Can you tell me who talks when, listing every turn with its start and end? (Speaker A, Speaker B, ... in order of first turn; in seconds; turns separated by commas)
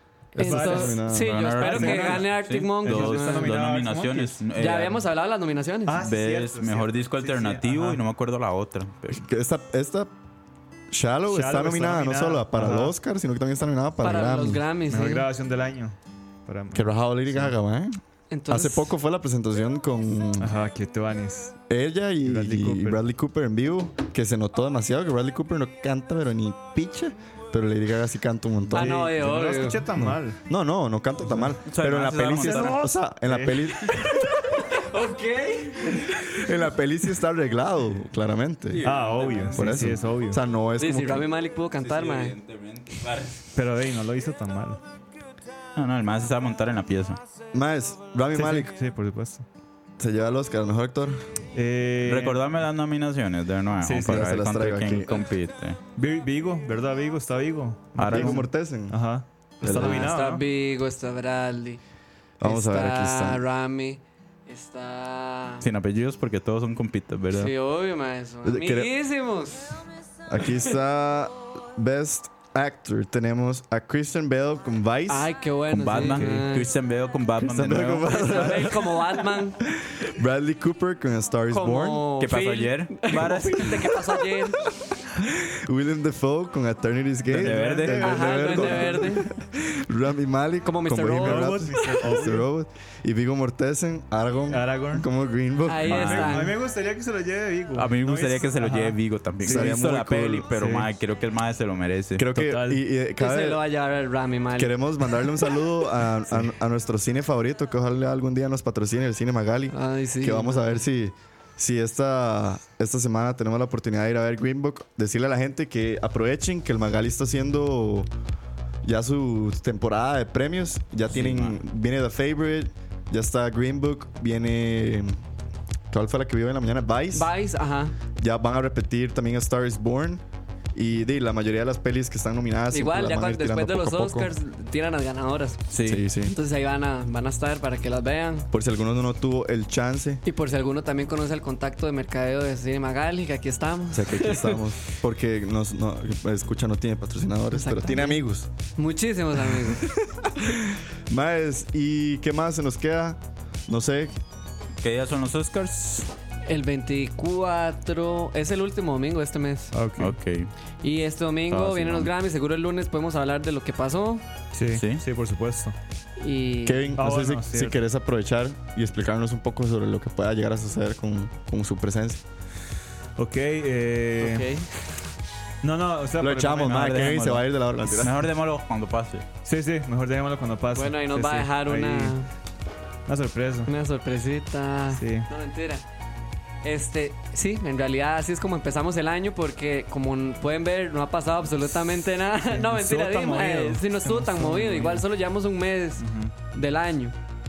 Speaker A: 0.3-3.5, Speaker B: 0.4-4.4, Speaker C: 0.4-1.4, Speaker D: 1.1-5.0, Speaker A: 4.5-6.0, Speaker B: 5.8-8.0, Speaker D: 6.0-9.2, Speaker C: 9.1-10.1, Speaker C: 10.9-14.6, Speaker B: 11.3-12.9, Speaker A: 14.0-15.3, Speaker B: 14.9-17.5, Speaker C: 16.7-20.5, Speaker A: 18.3-18.9, Speaker B: 20.4-21.6, Speaker C: 21.7-29.1, Speaker B: 22.2-23.0, Speaker B: 28.7-30.4, Speaker A: 28.7-29.8, Speaker C: 29.9-34.2, Speaker B: 31.2-31.6, Speaker D: 31.6-32.8, Speaker B: 32.4-33.6, Speaker A: 34.7-36.1, Speaker C: 36.3-38.8, Speaker D: 38.7-40.0, Speaker B: 38.8-40.4, Speaker C: 39.5-41.3, Speaker A: 40.8-42.3, Speaker D: 41.8-43.5, Speaker B: 43.5-44.8, Speaker D: 45.7-47.2, Speaker C: 47.5-48.7, Speaker B: 48.3-49.4, Speaker C: 50.0-51.2, Speaker B: 51.5-52.4, Speaker D: 52.0-55.8, Speaker B: 53.8-54.2, Speaker C: 54.0-55.1, Speaker B: 56.0-60.4, Speaker D: 58.0-58.4, Speaker C: 58.1-59.0, Speaker A: 59.6-61.8, Speaker C: 59.6-60.0, Speaker C: 62.4-63.4, Speaker A: 62.4-65.6, Speaker D: 65.6-67.5, Speaker A: 67.3-69.8, Speaker C: 68.4-68.9, Speaker C: 70.3-75.3, Speaker A: 75.1-76.7, Speaker D: 75.7-78.7, Speaker B: 76.0-76.5, Speaker C: 77.4-78.9, Speaker A: 78.0-79.6, Speaker C: 79.8-82.1, Speaker A: 81.5-84.6, Speaker D: 82.2-84.0, Speaker C: 85.2-96.3, Speaker D: 87.3-88.6, Speaker B: 87.3-89.1, Speaker A: 88.0-89.2, Speaker A: 90.6-91.6, Speaker B: 91.1-92.5, Speaker B: 94.5-95.0, Speaker A: 95.7-96.5, Speaker B: 95.9-99.8, Speaker D: 95.9-96.4, Speaker D: 97.8-102.2, Speaker C: 99.4-100.5, Speaker B: 100.5-100.9, Speaker C: 102.2-103.6, Speaker B: 102.3-102.8, Speaker A: 103.2-105.6, Speaker C: 104.6-118.1, Speaker A: 109.7-110.8, Speaker C: 118.8-125.2, Speaker D: 121.1-121.6, Speaker C: 125.9-127.3, Speaker A: 127.1-127.9, Speaker C: 128.2-130.2, Speaker C: 130.7-134.3, Speaker A: 132.7-135.6, Speaker D: 135.7-136.0, Speaker C: 135.8-136.3, Speaker A: 136.2-138.5, Speaker C: 138.5-140.2, Speaker A: 140.2-144.6, Speaker C: 143.9-148.5, Speaker A: 147.5-148.2, Speaker A: 148.8-149.9, Speaker C: 149.6-154.2, Speaker D: 154.8-156.1, Speaker A: 156.5-159.7, Speaker B: 159.7-160.1, Speaker D: 160.0-160.5, Speaker A: 160.8-164.2, Speaker D: 161.5-162.1, Speaker B: 164.5-165.7, Speaker D: 164.7-165.0, Speaker A: 166.2-166.9, Speaker C: 166.6-172.2, Speaker B: 167.0-167.8, Speaker B: 173.2-174.5, Speaker A: 174.2-174.7, Speaker B: 175.6-176.8, Speaker C: 176.2-178.3, Speaker D: 176.5-179.2, Speaker B: 179.4-182.1, Speaker A: 180.7-182.3, Speaker B: 183.1-183.7, Speaker A: 183.7-185.8, Speaker B: 184.9-185.3, Speaker A: 186.6-197.2, Speaker B: 192.3-195.0, Speaker B: 196.0-196.3